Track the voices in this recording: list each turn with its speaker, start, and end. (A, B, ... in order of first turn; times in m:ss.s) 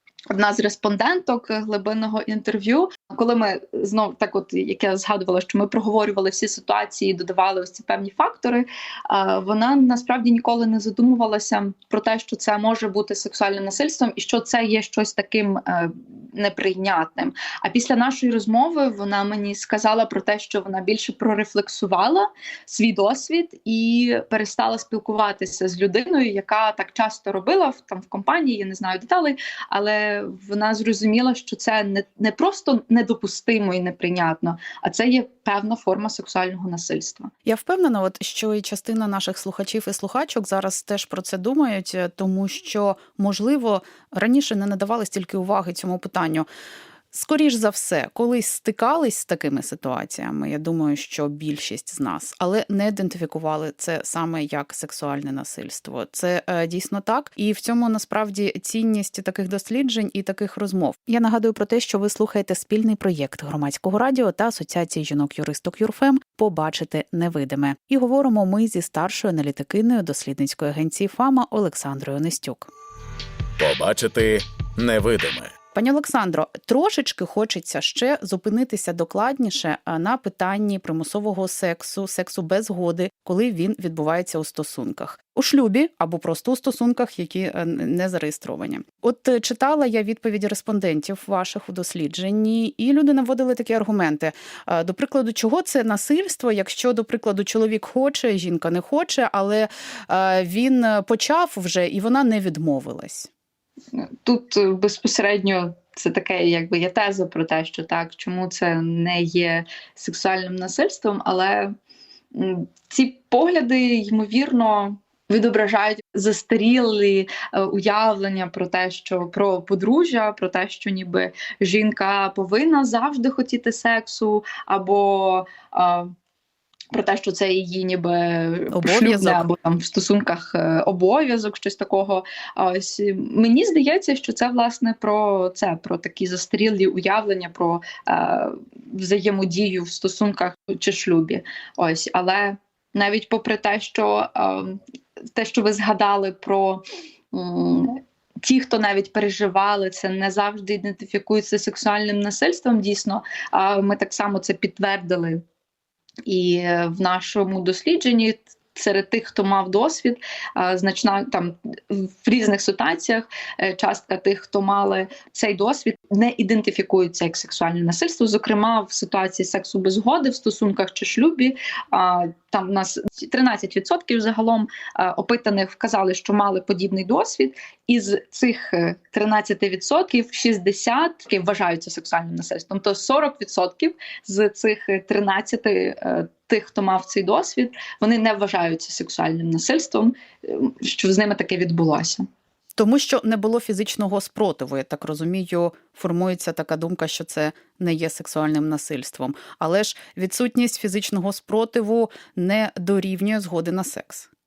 0:00.3-0:37.3 A
0:37.4-0:46.5 B
0:47.1-1:12.7 B
1:13.6-1:15.5 C
1:15.7-1:43.3 B
1:43.9-1:51.7 A
1:52.3-2:06.1 A
2:06.9-2:24.8 A
2:08.7-2:09.5 B
2:25.3-2:35.4 A
2:36.2-3:12.2 A
3:12.8-3:24.3 B